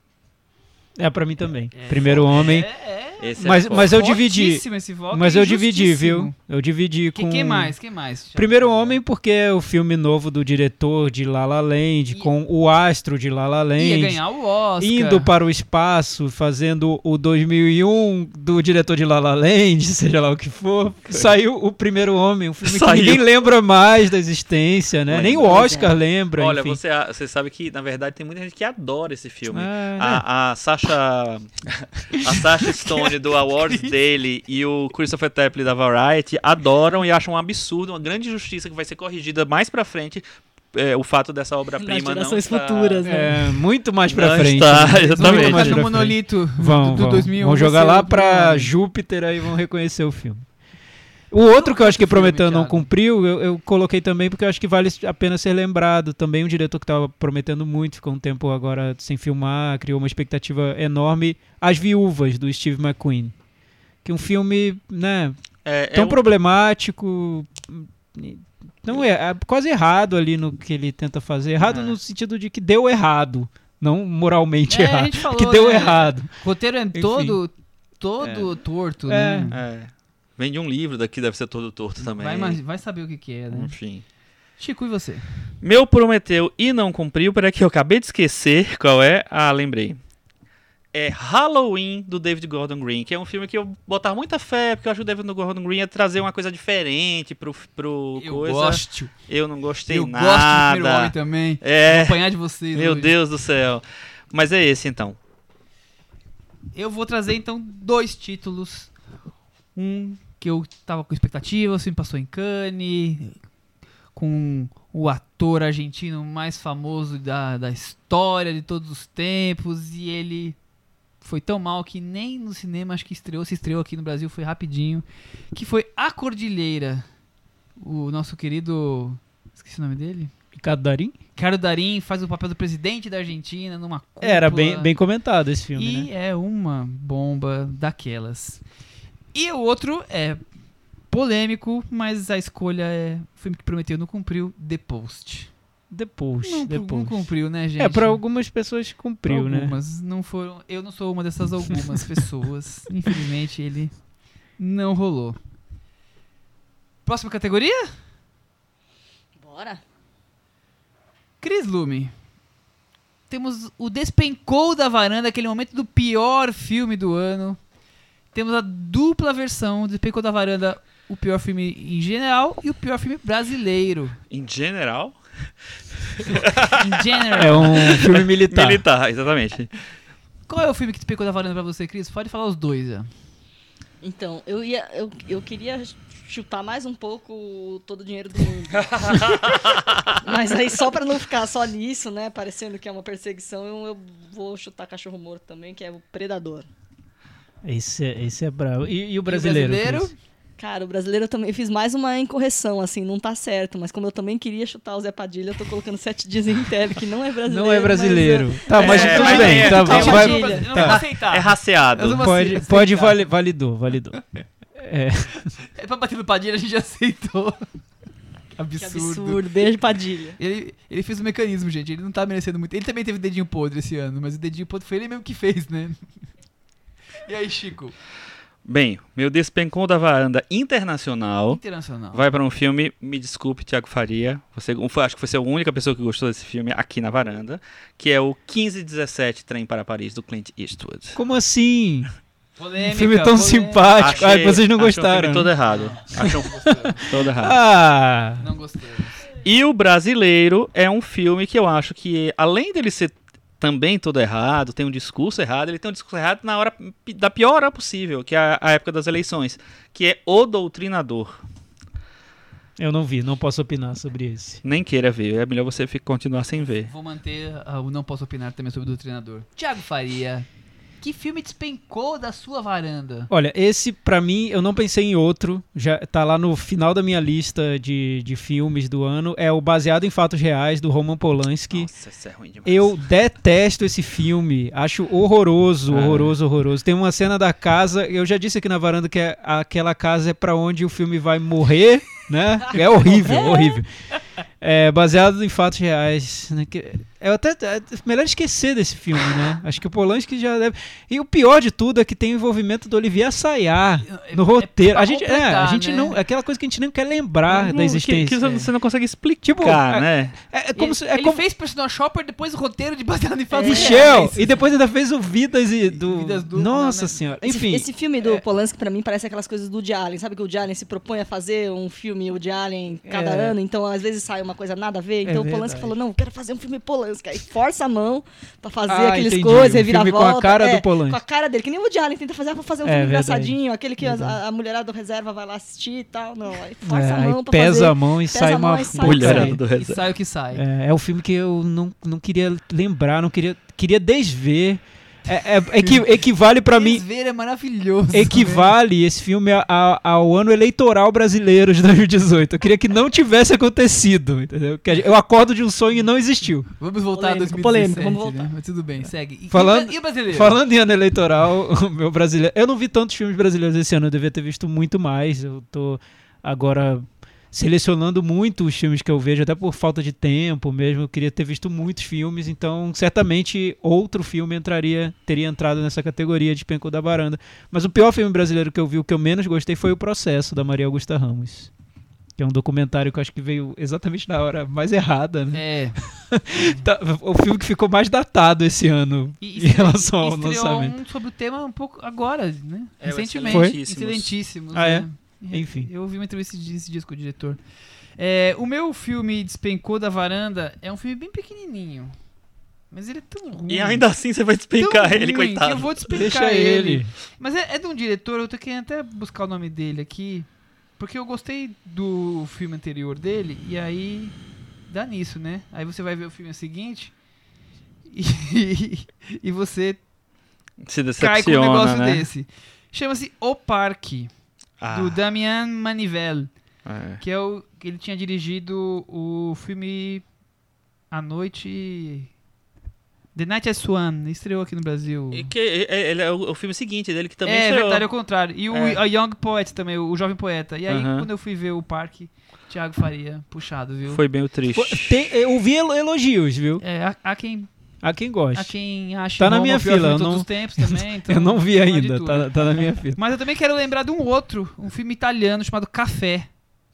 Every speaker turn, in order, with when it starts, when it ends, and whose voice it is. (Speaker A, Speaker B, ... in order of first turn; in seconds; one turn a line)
Speaker A: 1.0-2.7
Speaker B: 1.7-6.3
Speaker C: 3.2-4.0
Speaker A: 3.4-7.8
Speaker B: 7.1-9.0
Speaker A: 8.3-14.2
Speaker B: 13.8-15.3
Speaker A: 14.8-26.8
Speaker C: 22.6-23.2
Speaker C: 25.1-25.6
Speaker D: 25.4-25.9
Speaker C: 26.4-43.0
Speaker A: 29.5-30.2
Speaker B: 32.7-33.1
Speaker D: 41.8-43.5
Speaker A: 43.0-50.4
Speaker C: 44.1-45.8
Speaker B: 45.1-48.7
Speaker A: 51.3-63.3
Speaker B: 51.5-52.9
Speaker A: 64.0-65.4
Speaker C: 65.6-66.2
Speaker A: 65.9-76.3
Speaker C: 71.6-72.0
Speaker B: 74.7-79.6
Speaker A: 76.9-77.4
Speaker A: 79.1-79.5
Speaker C: 79.5-82.6
Speaker B: 82.0-83.7
Speaker C: 83.5-84.0
Speaker B: 84.6-85.2
Speaker C: 85.6-90.0
Speaker C: 90.9-102.2
Speaker B: 98.2-99.1
Speaker B: 99.9-103.1
Speaker C: 102.7-105.2
Speaker B: 106.7-108.9
Speaker B: 109.7-113.3
Speaker B: 114.1-120.5
Speaker B: 121.2-127.0
Speaker B: 127.8-130.3
Speaker A: 130.6-131.2
Speaker B: 131.3-134.9
Speaker A: 134.2-136.1
Speaker B: 135.7-138.6
Speaker B: 139.3-140.4
Speaker B: 141.1-145.5
Speaker A: 145.9-149.8
Speaker B: 146.4-148.2
Speaker B: 149.3-153.9
Speaker B: 154.6-155.4
Speaker B: 157.0-157.9
Speaker D: 159.4-159.8
Speaker B: 161.4-162.1
Speaker B: 163.3-167.6
Speaker B: 168.3-174.2
Speaker C: 174.3-175.2
Speaker C: 176.1-176.9
Speaker B: 176.3-178.0
Speaker A: 177.3-178.8
Speaker C: 177.6-179.7
Speaker B: 180.5-183.1
Speaker D: 184.0-196.7
Speaker C: 189.0-189.3
Speaker A: 197.6-200.1
Speaker B: 199.2-200.1
Speaker D: 200.6-210.7
Speaker A: 207.4-211.0
Speaker C: 208.7-212.3
Speaker B: 208.8-213.2
Speaker A: 212.1-214.2
Speaker A: 214.8-215.5
Speaker B: 215.7-217.6
Speaker B: 218.5-219.4
Speaker D: 218.8-220.4
Speaker B: 220.4-226.0
Speaker B: 227.2-227.9
Speaker C: 228.6-231.6
Speaker B: 231.5-232.3
Speaker C: 232.1-241.2
Speaker A: 241.1-242.1
Speaker B: 242.6-244.3
Speaker A: 242.8-245.5
Speaker C: 244.0-247.6
Speaker B: 245.7-247.0
Speaker A: 246.9-248.4
Speaker B: 248.4-249.2
Speaker C: 249.4-261.4
Speaker A: 262.8-264.6
Speaker C: 264.6-266.9
Speaker B: 266.8-270.5
Speaker B: 271.0-273.3
Speaker A: 273.3-281.9
Speaker C: 281.7-282.9
Speaker A: 282.6-293.9
Speaker C: 285.9-286.3
Speaker D: 293.2-293.8
Speaker A: 294.6-308.7
Speaker B: 304.0-306.2
Speaker C: 307.5-310.4
Speaker A: 309.4-311.4
Speaker B: 310.7-314.7
Speaker D: 313.5-314.2
Speaker A: 313.6-317.9
Speaker B: 315.9-317.2
Speaker D: 317.4-339.6
Speaker A: 323.1-323.6
Speaker A: 325.2-325.9
Speaker A: 328.9-331.2
Speaker A: 332.8-334.4
Speaker A: 336.8-339.6
Speaker C: 338.9-340.1
Speaker B: 339.7-340.6
Speaker A: 340.5-347.0
Speaker B: 346.6-348.7
Speaker A: 348.1-356.7
Speaker B: 356.8-360.6
Speaker D: 357.1-358.5
Speaker A: 359.5-381.7
Speaker A: 382.4-390.9
Speaker B: 385.5-386.0
Speaker B: 386.5-386.9
Speaker B: 389.4-397.6
Speaker C: 393.0-394.4
Speaker A: 393.5-393.8
Speaker A: 394.7-395.9
Speaker B: 398.2-402.1
Speaker B: 402.9-404.0
Speaker C: 403.7-406.0
Speaker B: 404.8-414.4
Speaker A: 406.1-407.1
Speaker B: 414.9-417.1
Speaker B: 418.1-420.0
Speaker C: 420.8-422.3
Speaker B: 421.2-424.3
Speaker C: 424.8-425.2
Speaker B: 424.9-426.5
Speaker C: 426.9-427.2
Speaker B: 427.2-430.2
Speaker B: 431.1-432.3
Speaker B: 433.3-435.5
Speaker C: 435.3-438.1
Speaker B: 437.4-444.2
Speaker C: 438.7-439.0
Speaker C: 440.9-441.3
Speaker C: 444.1-445.2
Speaker A: 444.7-446.8
Speaker B: 446.8-447.7
Speaker A: 448.0-448.7
Speaker B: 448.5-456.5
Speaker A: 449.4-453.2